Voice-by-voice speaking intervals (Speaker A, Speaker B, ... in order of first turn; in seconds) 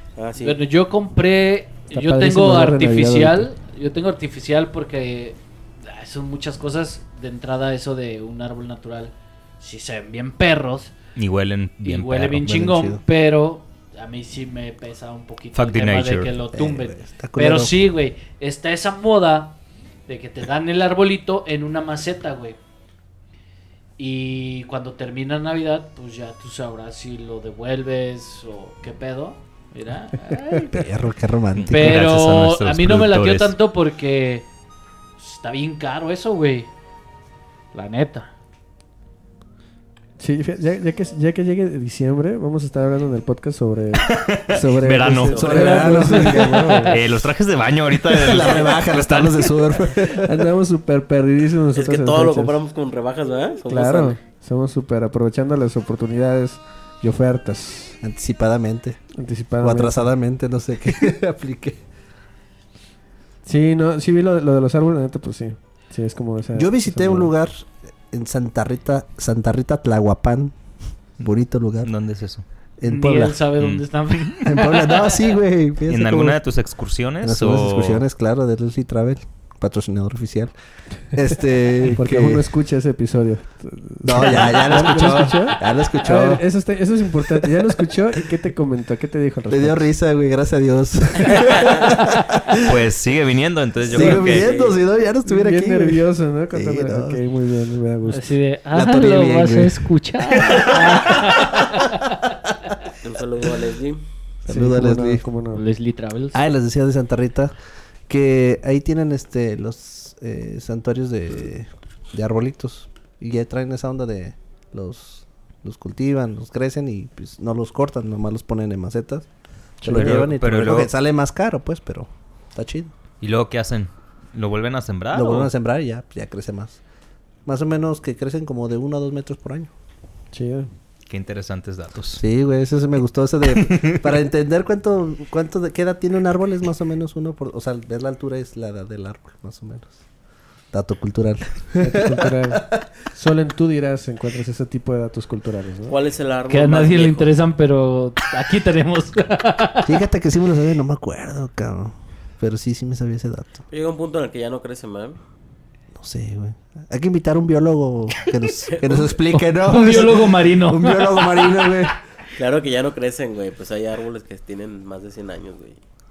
Speaker A: 0.2-0.6, 51.7-54.2, 94.2-94.8, 103.0-104.0, 145.9-147.3, 153.7-155.2, 158.7-159.1, 162.3-165.8
Speaker B: 0.4-10.9, 11.8-22.6, 24.0-30.9, 31.7-34.5, 35.2-36.7, 37.7-38.3, 45.9-47.0, 72.8-75.3, 98.1-102.2, 105.5-106.4, 146.5-150.0, 159.3-161.8
Speaker C: 1.9-3.5, 30.3-30.6, 40.2-47.0, 50.1-52.6, 53.7-58.0, 59.2-60.1, 63.5-67.3, 81.9-89.8, 95.3-98.2, 104.5-105.6, 119.8-120.3, 130.3-130.7, 141.8-145.9
Speaker D: 11.2-12.5, 15.5-16.4, 31.6-33.5, 44.0-45.7, 46.9-49.7, 71.8-72.5, 73.6-74.4, 75.9-78.0, 92.6-94.5, 119.9-120.9, 123.2-125.5, 131.1-132.2
Speaker E: 12.3-13.0, 16.5-17.8, 30.7-32.0, 45.3-46.8, 48.1-50.5, 58.0-59.0, 59.6-61.8, 66.6-70.6, 71.2-71.9, 72.8-73.5, 74.4-76.4, 77.2-80.5, 81.1-82.5, 84.0-86.4, 87.4-87.7, 89.5-92.7, 93.8-97.2, 98.7-99.9, 100.5-101.6, 104.4-105.2, 106.3-107.5, 108.1-119.3, 119.8-122.9, 125.1-126.8, 127.5-129.7, 132.2-140.0, 140.7-142.6, 149.8-153.6, 155.9-161.9